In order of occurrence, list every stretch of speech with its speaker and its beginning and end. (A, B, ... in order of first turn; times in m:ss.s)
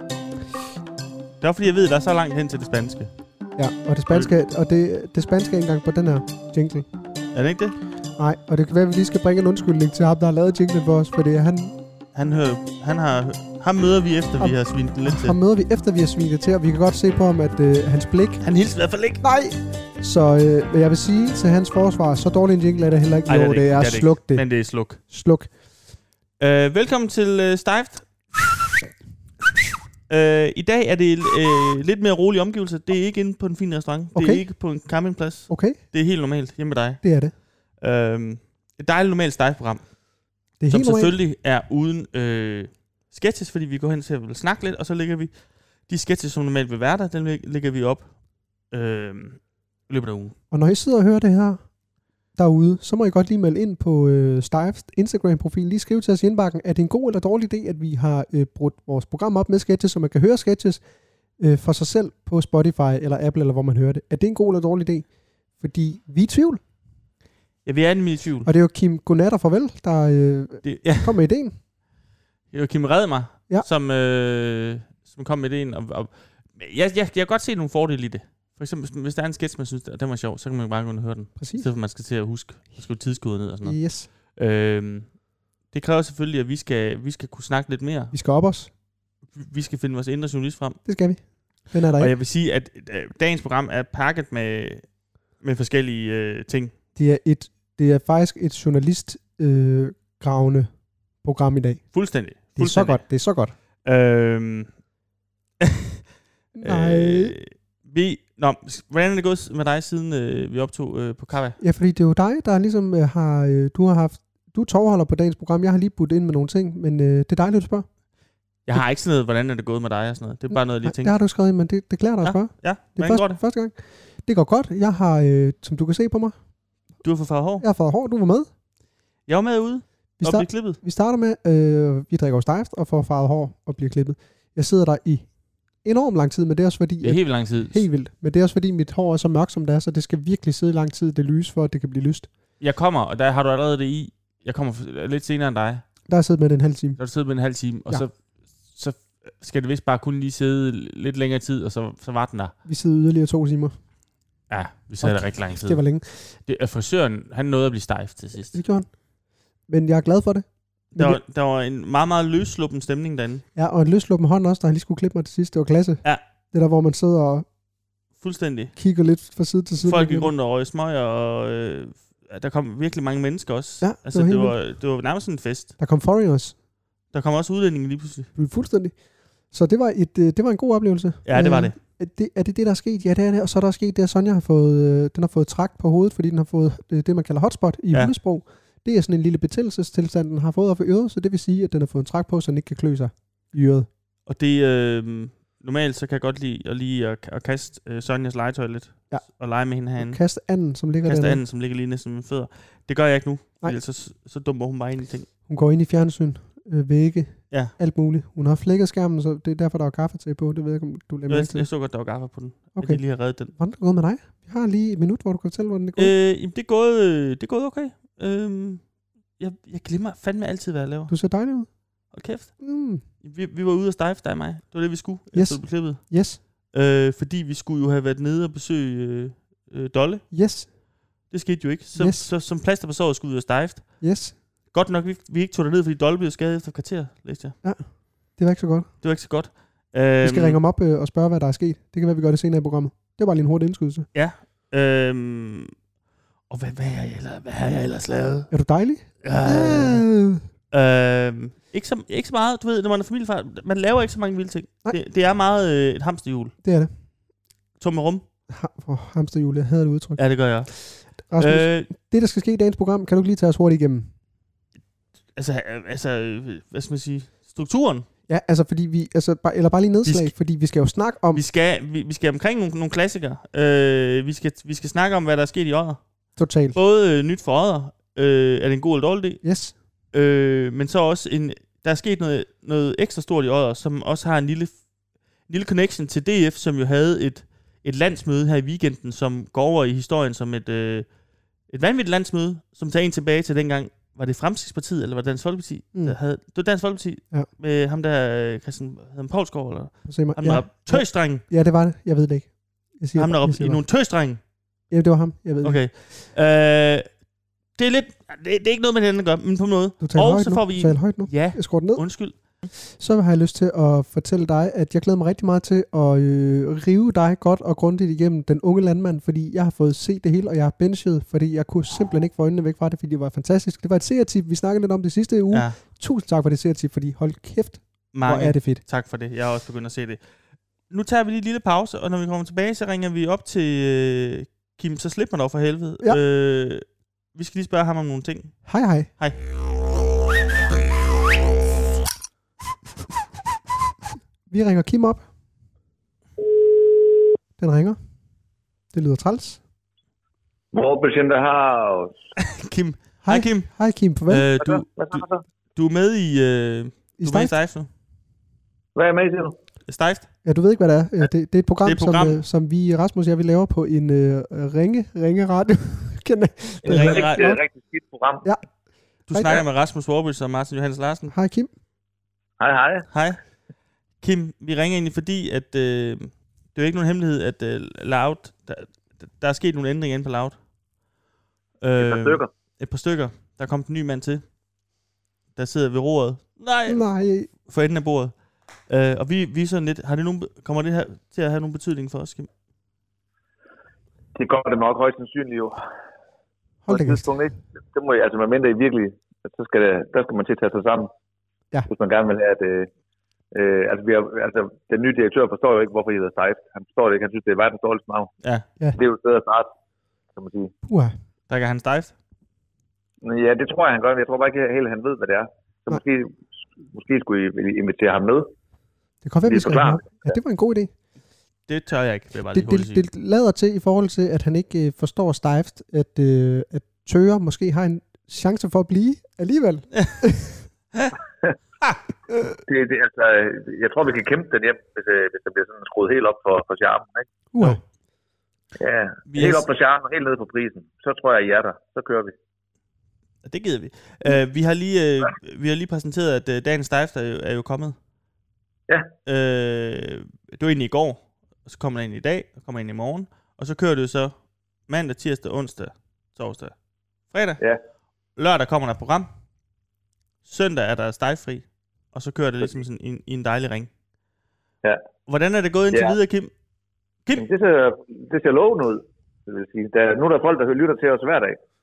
0:01.4-0:03.1 A
0:03.6-0:06.9 B
0:07.3-0:07.8 A
0:08.2-0:11.8 B
0:12.2-0:15.4 A
0:14.4-0:18.4 B
0:18.4-0:19.2 A
0:19.2-0:25.5 B
0:23.3-0:25.0 A
0:26.4-0:28.3 A
0:30.1-0:37.0 A
0:34.2-0:34.5 B
0:35.5-0:35.8 B
0:37.0-0:37.3 B
0:37.7-0:40.0 A
0:40.6-0:41.2 B
0:40.7-0:50.4 A
0:50.5-0:51.6 B
0:52.4-1:00.8 B
1:01.4-1:06.6 B
1:07.6-1:08.5 A
1:08.4-1:11.6 B
1:10.6-1:11.2 A
1:12.5-1:28.2 A
1:21.4-1:21.7 B
1:23.6-1:24.1 B
1:28.1-1:28.7 B
1:29.3-1:30.8 A
1:30.8-1:32.1 B
1:32.0-1:36.8 A
1:37.0-1:43.5 B
1:41.9-1:43.1 A
1:43.8-1:44.8 A
1:46.6-1:47.4 B
1:46.6-1:51.6 A
1:51.6-1:57.9 B
1:58.6-2:01.2 A
2:00.6-2:06.4 B
2:02.2-2:03.4 A
2:07.0-2:07.6 A
2:07.6-2:08.5 B
2:09.3-2:10.8 A
2:10.2-2:15.3 B
2:15.8-2:22.3 B
2:17.0-2:17.8 A
2:22.6-2:25.8 A
2:26.1-2:27.0 B
2:27.0-2:32.5 A
2:32.6-2:33.8 B
2:34.5-2:38.6 A
2:35.0-2:36.3 B
2:38.5-2:38.9 B
2:39.7-2:41.2 B
2:40.9-2:43.4 A
2:43.6-2:47.5 B
2:48.2-2:48.7 A
2:48.8-2:50.3 B
2:49.8-2:55.8 A
2:53.8-2:54.6 B
2:55.8-2:56.6 B
2:57.1-2:58.3 A
2:58.4-2:59.0 B
2:59.5-3:13.9 B
3:01.2-3:01.8 A
3:14.3-3:20.2 A
3:20.0-3:21.4 B
3:21.0-3:25.3 A
3:25.5-3:31.7 B
3:31.3-3:33.5 A
3:32.8-3:36.1 B
3:36.0-3:41.1 A
3:41.1-3:41.8 B
3:42.1-3:42.6 A
3:42.6-3:43.0 B
3:43.2-3:50.3 A
3:45.3-3:46.4 B
3:50.3-3:50.7 B
3:51.3-3:54.1 A
3:52.0-3:52.3 B
3:54.0-3:54.4 B
3:54.6-3:57.6 A
3:57.6-3:58.9 B
3:59.0-4:00.6 A
4:00.2-4:04.1 B
4:04.1-4:05.8 A
4:06.5-4:08.5 A
4:08.5-4:10.4 B
4:09.2-4:10.0 A
4:10.7-4:16.6 A
4:16.6-4:16.9 B
4:17.8-4:18.2 A
4:18.5-4:24.1 B
4:20.2-4:21.9 A
4:25.4-4:28.1 A
4:28.3-4:31.4 B
4:30.1-4:30.3 A
4:31.3-4:39.4 A
4:36.4-4:36.8 B
4:39.4-4:39.8 B
4:40.1-4:44.8 A
4:45.5-4:51.1 A
4:51.7-5:01.4 A
5:00.0-5:03.8 B
5:03.2-5:04.4 A
5:04.9-5:05.8 B
5:05.6-5:07.1 A
5:07.8-5:12.7 A
5:10.0-5:12.2 B
5:12.7-5:28.8 B
5:25.5-5:25.8 A
5:28.1-5:30.2 A
5:30.9-5:39.4 A
5:38.6-5:39.1 B
5:44.5-5:45.2 B
5:47.6-5:48.0 B
5:48.9-5:49.6 B
5:50.7-5:52.2 C
5:52.4-5:53.7 A
5:53.2-5:54.5 B
5:54.3-5:57.9 A
5:54.6-5:55.4 C
5:57.2-5:57.5 B
5:59.0-5:59.6 C
5:59.9-6:00.3 A
6:00.4-6:07.6 B
6:01.8-6:02.4 A
6:06.8-6:08.5 C
6:06.9-6:07.5 A
6:09.3-6:11.3 A
6:09.3-6:09.6 B
6:11.3-6:11.7 B
6:12.6-6:13.1 C
6:13.1-6:13.4 A
6:14.2-6:20.6 A
6:21.8-6:24.4 A
6:22.0-6:22.5 C
6:25.6-6:32.5 A
6:26.9-6:27.5 B
6:34.4-6:35.8 C
6:36.9-6:37.2 B
6:36.9-6:41.1 C
6:41.9-6:42.9 C
6:43.5-6:48.3 C
6:49.0-6:49.7 C
6:50.4-6:50.7 C
6:50.8-6:51.1 B
6:51.5-6:52.1 A
6:53.2-6:56.4 C
6:56.9-6:58.5 C
6:59.2-7:00.9 B
6:59.5-7:00.3 C
7:01.7-7:03.0 A
7:02.5-7:10.6 B
7:09.9-7:10.2 A
7:12.7-7:17.3 C
7:17.5-7:17.8 B
7:18.8-7:22.3 C
7:19.3-7:19.7 A
7:23.4-7:28.0 A
7:29.3-7:36.8 A
7:37.3-7:37.6 A
7:38.4-7:39.3 A
7:40.4-7:43.9 A
7:45.3-7:46.5 A
7:47.4-7:51.6 C